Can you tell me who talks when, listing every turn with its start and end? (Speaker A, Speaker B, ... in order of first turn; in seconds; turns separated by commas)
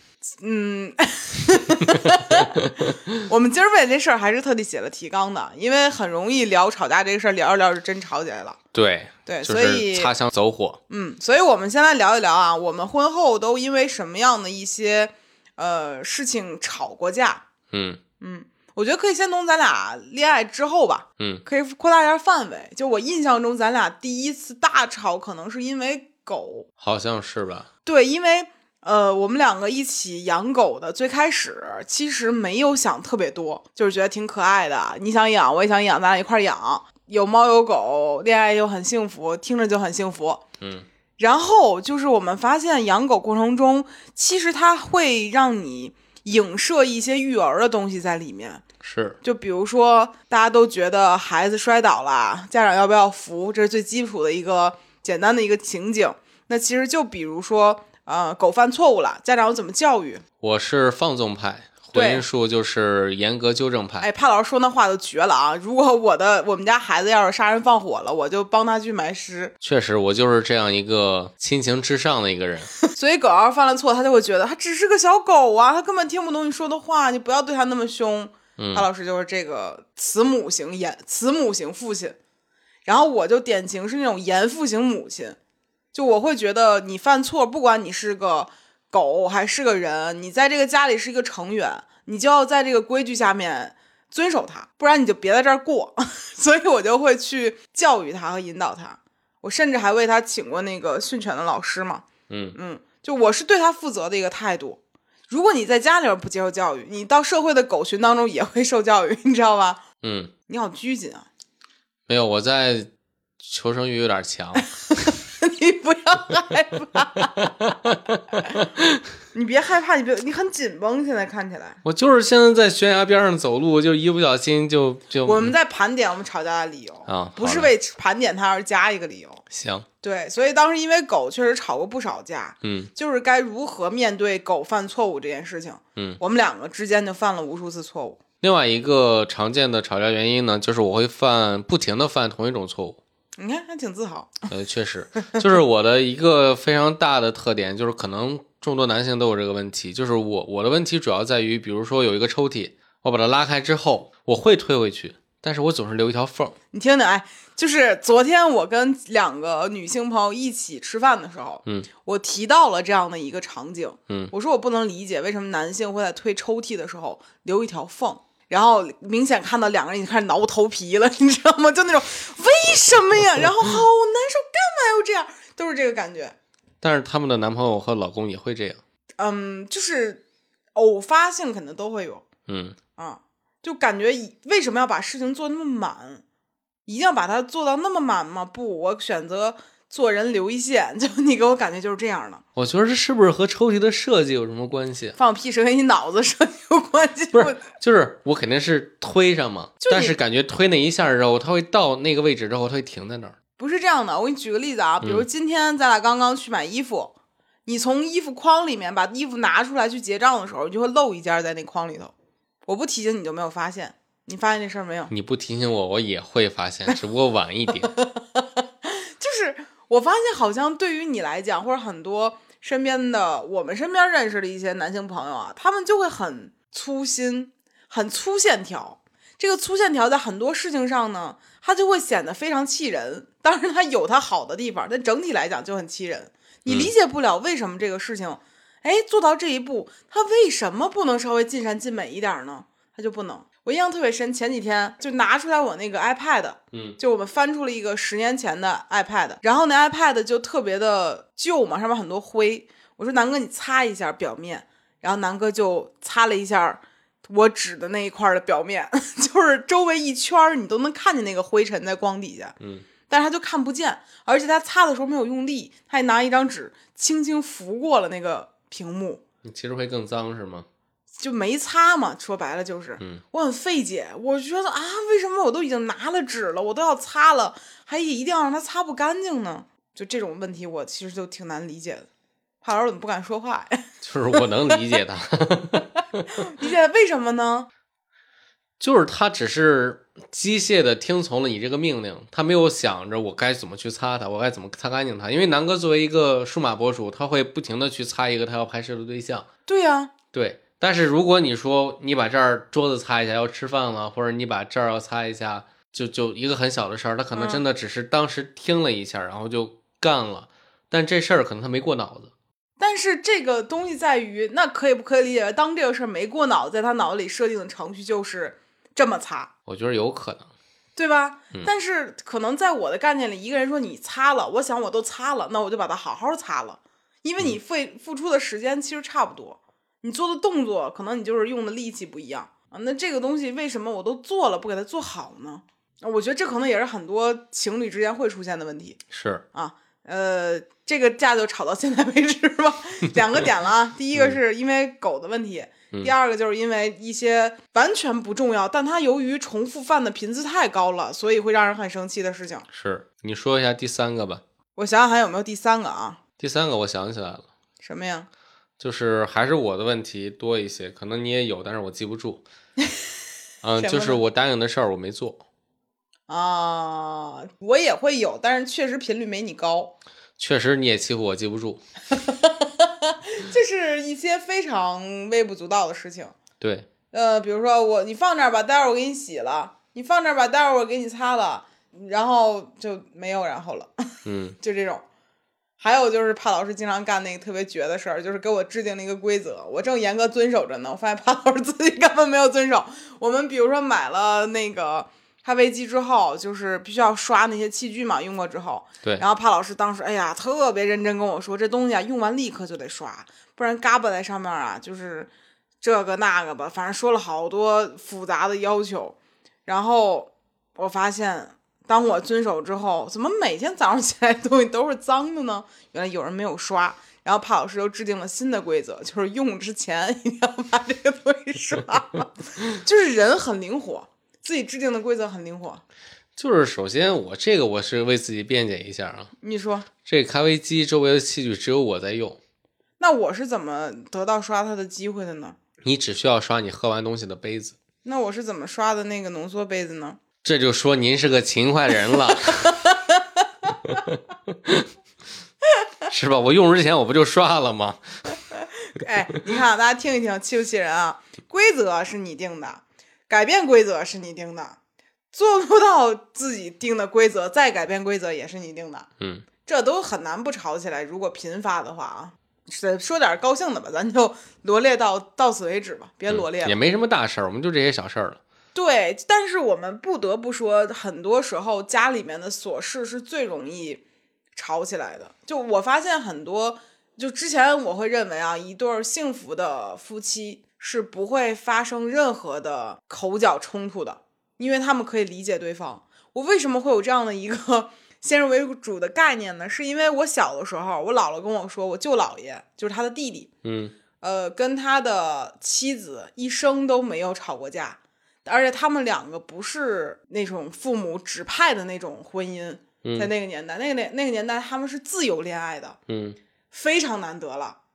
Speaker A: 0.4-8.6, Speaker B: 2.0-2.6, Speaker B: 8.7-10.8, Speaker A: 9.3-10.1, Speaker A: 10.9-17.4, Speaker B: 17.7-18.0, Speaker A: 18.2-26.7, Speaker B: 21.2-21.4, Speaker B: 26.8-27.7, Speaker A: 27.8-40.4, Speaker B: 40.6-40.9, Speaker A: 41.2-48.6, Speaker B: 48.8-49.2, Speaker A: 49.2-60.2, Speaker B: 60.4-64.1, Speaker A: 61.9-62.2, Speaker A: 64.0-69.5, Speaker B: 69.6-72.7, Speaker A: 72.8-82.2, Speaker B: 78.6-78.9, Speaker A: 82.9-85.4, Speaker A: 85.9-109.8, Speaker B: 102.3-102.6, Speaker B: 110.0-110.3, Speaker A: 110.5-111.3, Speaker B: 112.1-114.7, Speaker A: 114.6-117.7, Speaker B: 117.7-119.0, Speaker A: 118.4-118.6, Speaker A: 119.3-121.8, Speaker B: 121.8-125.5, Speaker A: 125.2-129.4, Speaker B: 127.1-127.7, Speaker B: 129.5-129.9, Speaker A: 130.0-138.2, Speaker B: 132.6-132.9, Speaker B: 138.4-143.0, Speaker A: 143.4-144.5, Speaker B: 144.5-156.6, Speaker A: 156.7-176.3, Speaker B: 176.8-178.8, Speaker A: 179.2-180.2, Speaker A: 180.8-182.2, Speaker B: 182.5-182.8, Speaker A: 183.0-186.2, Speaker A: 186.9-192.4, Speaker B: 192.6-195.2, Speaker A: 195.2-197.7, Speaker B: 197.3-203.4, Speaker A: 199.8-200.2, Speaker A: 203.6-207.1, Speaker A: 207.7-212.1, Speaker A: 212.7-215.1, Speaker B: 215.1-217.9, Speaker A: 217.8-262.6, Speaker B: 236.7-236.9, Speaker B: 246.7-247.0, Speaker B: 262.6-262.9, Speaker A: 263.1-269.2, Speaker B: 269.4-270.7, Speaker A: 271.2-282.1, Speaker A: 282.6-284.9, Speaker B: 284.0-285.9, Speaker A: 286.3-287.7, Speaker B: 288.8-299.5, Speaker A: 299.7-300.1, Speaker B: 300.3-312.3, Speaker A: 307.3-307.6, Speaker A: 312.8-319.5, Speaker B: 319.7-320.5, Speaker A: 321.0-339.0, Speaker B: 339.1-339.4, Speaker A: 339.5-352.7, Speaker B: 352.7-354.4, Speaker A: 354.8-356.2, Speaker B: 356.4-357.5, Speaker A: 357.8-358.3, Speaker B: 358.8-362.4, Speaker B: 363.6-365.4, Speaker A: 363.8-364.2, Speaker A: 366.3-369.9, Speaker B: 370.4-371.8, Speaker A: 372.1-376.4, Speaker B: 376.6-376.9, Speaker A: 377.1-385.0, Speaker B: 384.2-384.6, Speaker A: 385.8-405.3, Speaker A: 405.8-425.8, Speaker B: 426.4-429.3, Speaker A: 429.4-429.9, Speaker B: 430.1-432.4, Speaker A: 433.0-435.6, Speaker B: 435.8-437.8, Speaker A: 438.0-440.2, Speaker B: 440.4-442.7, Speaker A: 442.3-444.0, Speaker B: 443.9-444.9, Speaker B: 446.1-448.0, Speaker A: 448.8-454.8, Speaker A: 455.3-459.1, Speaker B: 459.2-459.4, Speaker A: 459.6-466.8, Speaker B: 466.3-468.4, Speaker A: 468.8-474.0, Speaker A: 474.6-493.5, Speaker B: 493.6-493.9, Speaker A: 494.2-506.0, Speaker B: 503.0-503.3, Speaker B: 506.1-506.4, Speaker A: 506.7-507.8